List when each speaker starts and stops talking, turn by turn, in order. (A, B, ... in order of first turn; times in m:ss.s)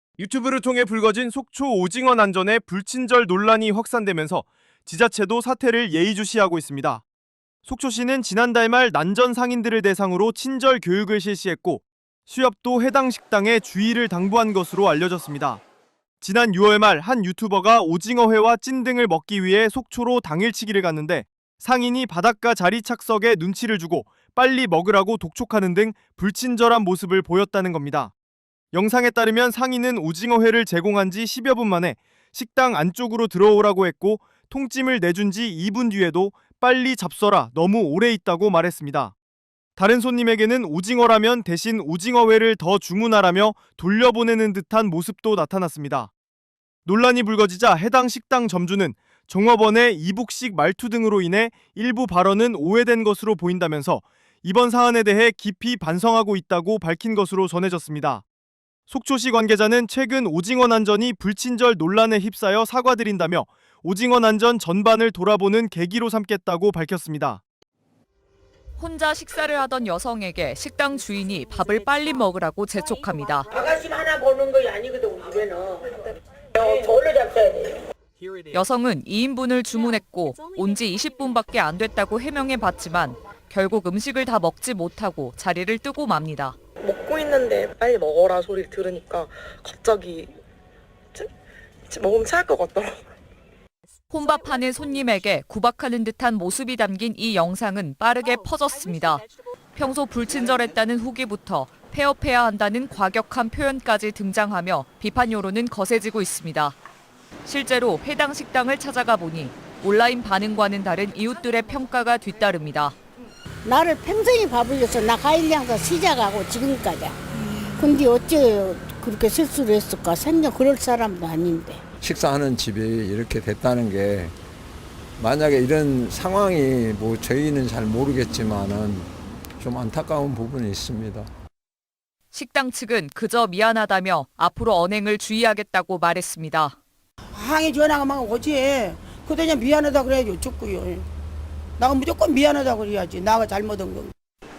0:00.2-0:07.0 A
0:07.6-0:15.6 A
0:16.2-0:28.1 A
0:28.7-0:39.1 A
0:39.8-0:46.1 A
0:46.9-0:58.2 A
0:58.9-1:07.4 A
1:08.8-1:13.5 B
1:18.5-1:26.6 B
1:26.8-1:30.4 C
1:31.9-1:33.0 C
1:34.1-1:39.2 B
1:39.8-1:46.8 B
1:47.4-1:53.0 B
1:53.7-1:57.1 D
1:57.7-2:01.8 D
2:02.0-2:04.4 E
2:05.2-2:11.3 E
2:12.3-2:16.8 B
2:17.3-2:21.0 F
2:21.8-2:24.1 F